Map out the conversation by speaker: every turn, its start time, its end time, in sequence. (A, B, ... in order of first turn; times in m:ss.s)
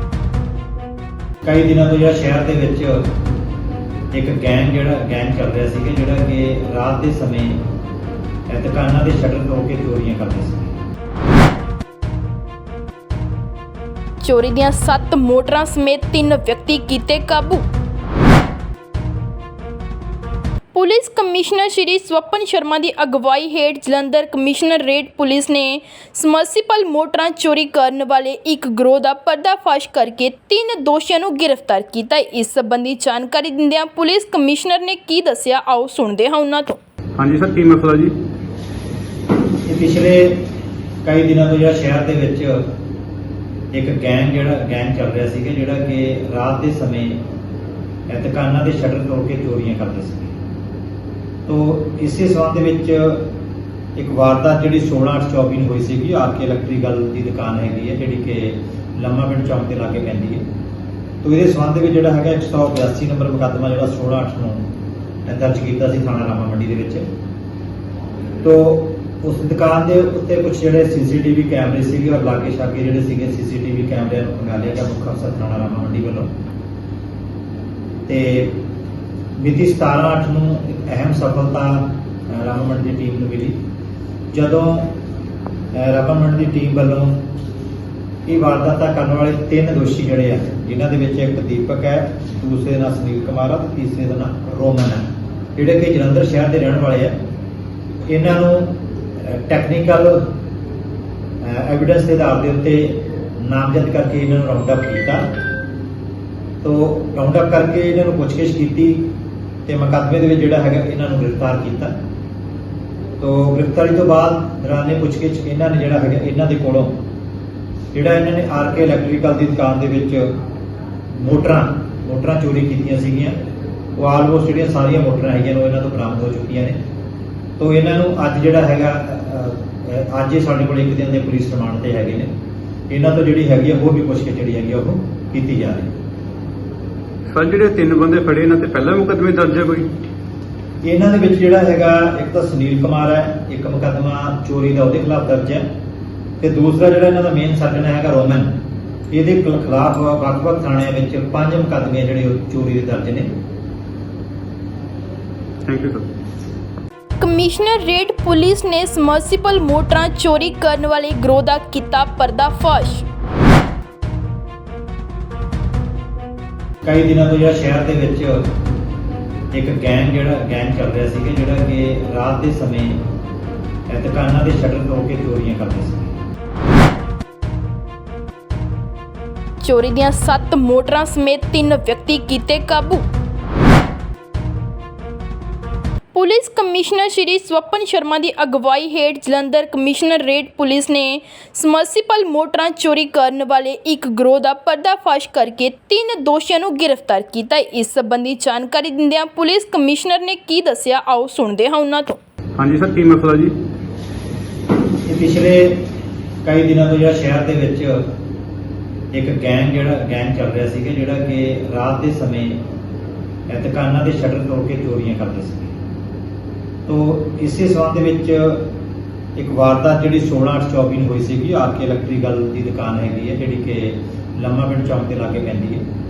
0:01.4-0:03.0 A
0:04.1-0:07.6 A
0:08.5-0:10.8 A
0:14.2-0:17.7 B
0:20.7-0:36.8 B
0:37.2-0:38.1 C
0:39.6-0:40.4 A
0:41.0-0:42.6 A
0:43.7-0:47.2 A
0:48.1-0:50.4 A
0:51.5-0:53.2 A
0:54.0-1:00.4 A
1:01.2-1:04.6 A
1:05.3-1:07.0 A
1:08.4-1:16.3 A
1:18.1-1:18.6 A
1:19.4-1:23.6 A
1:24.3-1:24.9 A
1:25.7-1:27.2 A
1:28.2-1:37.2 A
1:38.1-1:40.2 A
1:41.4-1:45.3 A
1:46.6-1:49.0 A
1:49.7-1:51.9 A
1:53.2-1:56.9 A
1:57.9-2:00.3 A
2:01.1-2:03.3 A
2:04.0-2:06.8 A
2:07.6-2:12.3 A
2:12.9-2:15.9 A
2:17.3-2:19.9 C
2:20.8-2:25.6 A
2:26.4-2:28.5 A
2:29.1-2:33.3 A
2:35.6-2:36.1 C
2:37.2-2:43.0 B
2:46.8-2:48.4 A
2:49.5-2:53.0 A
2:53.9-2:56.2 A
2:59.6-3:03.1 B
3:06.1-3:22.2 B
3:22.6-3:23.5 C
3:25.0-3:25.8 A
3:26.4-3:28.0 A
3:29.1-3:32.6 A
3:33.5-3:35.8 A
3:36.9-3:38.6 A
3:39.4-3:45.8 A